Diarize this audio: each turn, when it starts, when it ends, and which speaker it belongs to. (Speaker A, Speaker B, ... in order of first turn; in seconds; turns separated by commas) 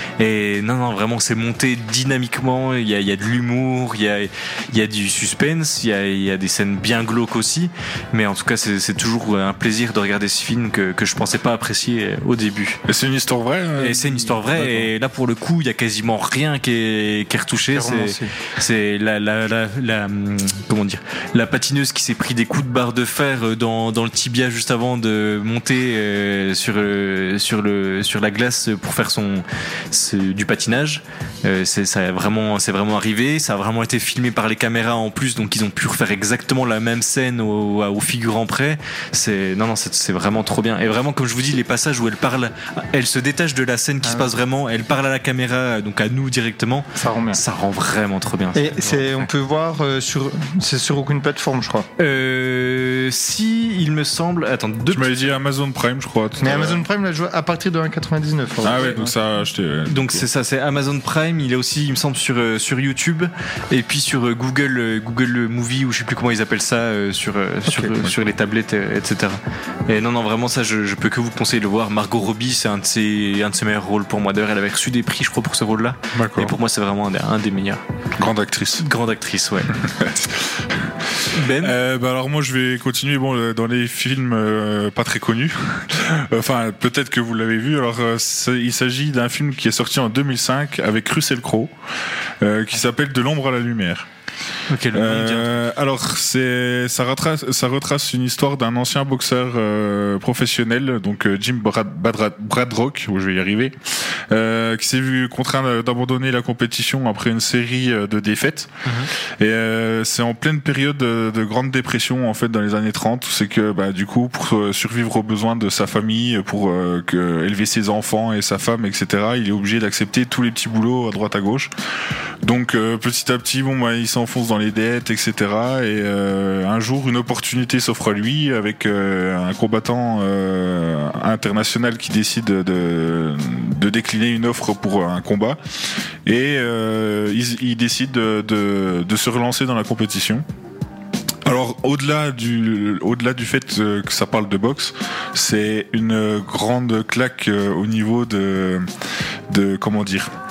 Speaker A: 0.2-12.8, Speaker B: 12.9-14.9, Speaker A: 13.8-49.3, Speaker C: 17.7-18.3, Speaker C: 44.0-44.3, Speaker C: 47.0-47.4, Speaker C: 48.5-51.9, Speaker A: 52.0-55.2, Speaker B: 54.9-56.8, Speaker C: 56.4-59.1, Speaker B: 58.6-60.3, Speaker A: 59.9-77.8, Speaker B: 76.1-76.5, Speaker B: 78.2-78.8, Speaker A: 78.8-79.8, Speaker B: 79.8-80.9, Speaker A: 81.3-81.8, Speaker B: 81.4-91.7, Speaker B: 92.4-94.1, Speaker A: 94.7-95.7, Speaker B: 94.9-103.8, Speaker B: 104.3-121.7, Speaker A: 108.8-109.1, Speaker B: 122.4-135.6, Speaker B: 136.2-140.4, Speaker B: 141.4-148.9, Speaker B: 149.5-150.3